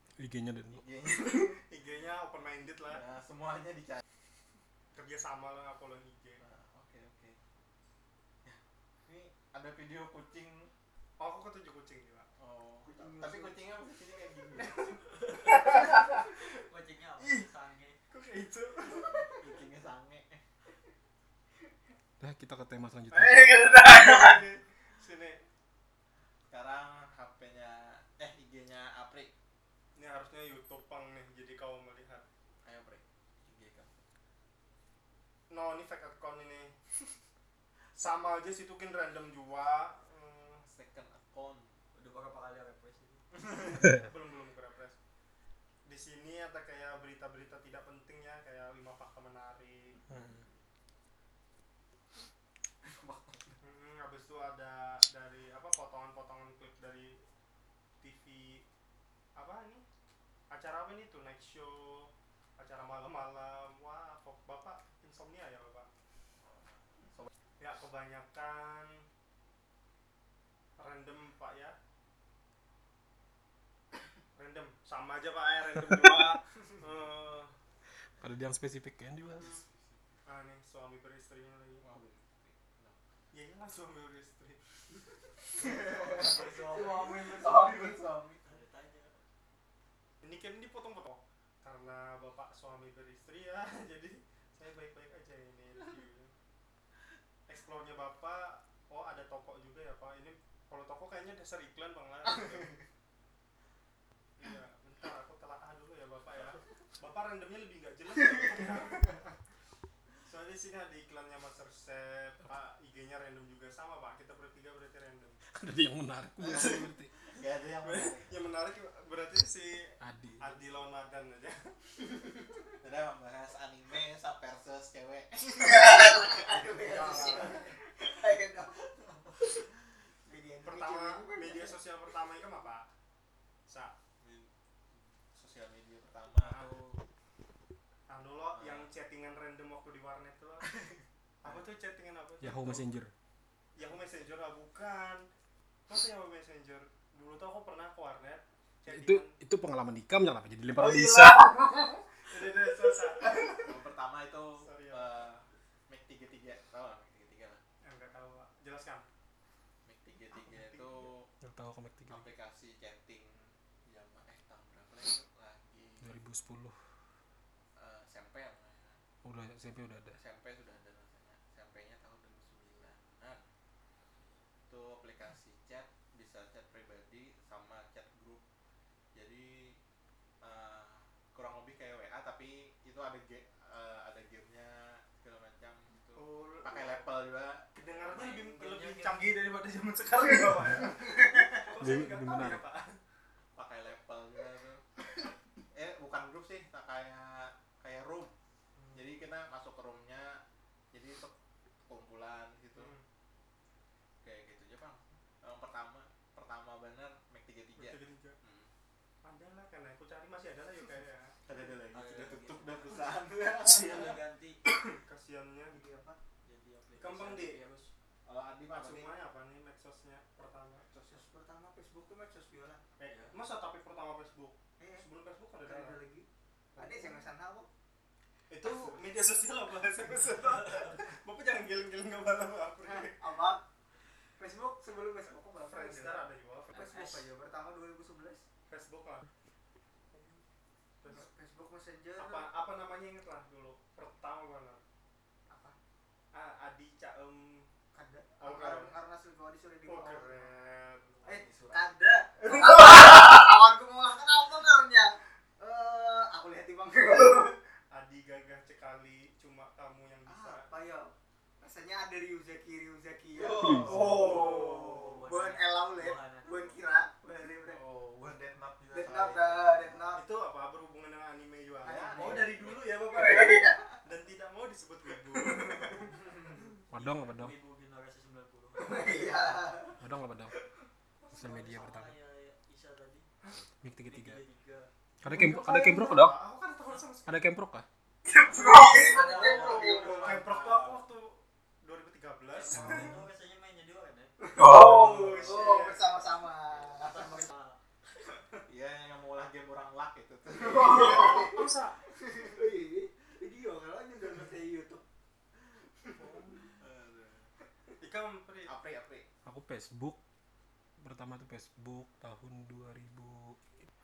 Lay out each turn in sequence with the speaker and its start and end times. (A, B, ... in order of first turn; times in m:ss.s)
0:00.2-0:00.9 A
0:00.8-0:01.6 B
0:01.6-0:03.0 C
0:02.9-0:04.0 B
0:04.9-0:06.4 C
0:06.4-0:07.4 B
0:08.4-0:10.7 B
0:11.2-0:12.3 C
0:12.4-0:15.0 B
0:12.8-0:13.6 D
0:15.2-0:18.0 E
0:15.5-0:16.3 C
0:18.1-0:19.4 C
0:19.3-0:20.4 B
0:22.2-0:23.6 A
0:23.1-0:25.4 C
0:26.5-0:29.3 B
0:30.0-0:32.2 C
0:32.6-0:33.9 B
0:35.5-0:36.7 C
0:37.9-0:40.6 C
0:40.6-0:41.7 B
0:41.9-0:43.2 E
0:43.6-0:45.0 C
0:45.8-0:50.0 C
0:50.1-0:50.4 A
0:53.0-0:53.3 B
0:53.6-0:57.2 C
0:58.0-0:58.6 C
0:59.4-0:59.8 C
1:00.5-1:05.9 C
1:07.6-1:09.0 C
1:10.8-1:11.8 C
1:14.4-1:17.5 C
1:18.2-1:19.5 A
1:19.4-1:20.0 B
1:20.2-1:21.9 C
1:21.8-1:23.0 B
1:23.3-1:24.8 C
1:25.6-1:28.0 D
1:25.7-1:26.3 B
1:26.0-1:27.4 E
1:27.2-1:28.6 B
1:28.4-1:29.2 E
1:30.2-1:36.3 C
1:37.5-1:42.8 C
1:44.4-1:49.3 C
1:50.2-1:55.4 C
1:55.5-1:57.1 A
1:57.3-1:58.4 B
1:57.8-2:01.7 C
2:00.0-2:00.5 A
2:02.8-2:07.5 B
2:05.6-2:09.5 D
2:06.8-2:07.7 C
2:10.2-2:11.8 D
2:10.6-2:12.9 C
2:13.7-2:13.9 C
2:14.2-2:16.7 B
2:16.4-2:17.0 C
2:18.1-2:20.7 C
2:18.5-2:18.9 B
2:21.4-2:22.9 C
2:22.4-2:23.1 A
2:23.8-2:25.2 C
2:23.8-2:24.0 B
2:25.9-2:29.3 C
2:28.9-2:31.5 A
2:30.8-2:31.6 C
2:32.2-2:33.6 C
2:33.6-2:37.6 B
2:34.6-2:35.2 C
2:37.8-2:39.0 C
2:39.8-2:41.3 B
2:40.3-2:41.1 C
2:41.4-2:42.3 A
2:42.1-2:46.1 B
2:46.0-2:46.8 A
2:47.7-2:49.0 B
2:49.2-2:50.2 A
2:50.1-2:53.4 B
2:54.7-2:58.4 B
2:59.1-2:59.8 B
3:00.4-3:07.7 B
3:06.2-3:07.0 D
3:07.8-3:13.0 C
3:08.0-3:09.4 E
3:11.0-3:11.5 D
3:11.8-3:12.6 A
3:13.6-3:14.8 B
3:15.7-3:18.3 B
3:18.8-3:19.1 C
3:18.9-3:21.3 B
3:21.8-3:22.9 B
3:22.7-3:23.0 C
3:24.2-3:28.7 B
3:27.8-3:28.4 C
3:29.2-3:31.4 C
3:31.4-3:34.1 B
3:31.9-3:34.6 E
3:35.0-3:35.8 C
3:35.7-3:36.2 D
3:36.4-3:37.9 E
3:37.0-3:37.6 C
3:38.2-3:39.1 B
3:38.7-3:40.9 C
3:41.0-3:42.8 D
3:43.0-3:46.0 C
3:43.1-3:43.3 E
3:44.8-3:45.0 D
3:45.6-3:47.7 D
3:46.7-3:47.2 C
3:48.5-3:53.2 C
3:48.6-3:49.0 D
3:52.8-3:53.6 D
3:54.4-3:58.4 D
3:55.5-3:56.8 C
3:56.7-3:57.2 E
3:58.7-3:59.3 C
4:00.1-4:00.4 C
4:01.0-4:01.3 C
4:01.1-4:02.5 D
4:02.2-4:04.8 C
4:05.5-4:05.8 D
4:06.3-4:07.7 C
4:07.9-4:10.5 D
4:08.4-4:09.0 C
4:09.8-4:11.4 C
4:11.2-4:11.9 B
4:11.2-4:17.6 D
4:17.9-4:20.8 C
4:20.3-4:27.8 D
4:23.3-4:25.2 B
4:23.6-4:24.0 A
4:23.8-4:25.2 C
4:24.3-4:26.8 E
4:27.6-4:30.1 B
4:28.9-4:30.2 D
4:30.1-4:36.5 C
4:31.8-4:32.6 B
4:31.8-4:34.0 D
4:35.4-4:36.1 D
4:36.9-4:37.5 A
4:36.9-4:39.6 E
4:38.8-4:40.0 D
4:40.0-4:40.5 A
4:41.3-4:42.1 A
4:41.3-4:43.2 E
4:43.8-4:44.4 A
4:44.1-4:44.9 E
4:45.2-4:46.4 A
4:45.2-4:47.4 C
4:47.2-4:47.8 A
4:48.2-4:50.4 D
4:48.6-4:50.1 E
4:49.1-4:51.0 B
4:49.3-4:53.2 C
4:52.5-4:54.4 E
4:52.7-4:53.2 A
4:54.4-4:57.4 D
4:54.6-4:56.2 C
4:56.8-4:57.8 E
4:58.3-4:58.6 D
4:58.7-5:01.5 B
5:00.5-5:05.0 D
5:00.8-5:02.0 C
5:06.0-5:06.3 D
5:06.2-5:06.5 C
5:06.8-5:07.5 B
5:08.0-5:08.7 C
5:08.7-5:09.3 B
5:09.4-5:10.2 A
5:11.0-5:13.6 A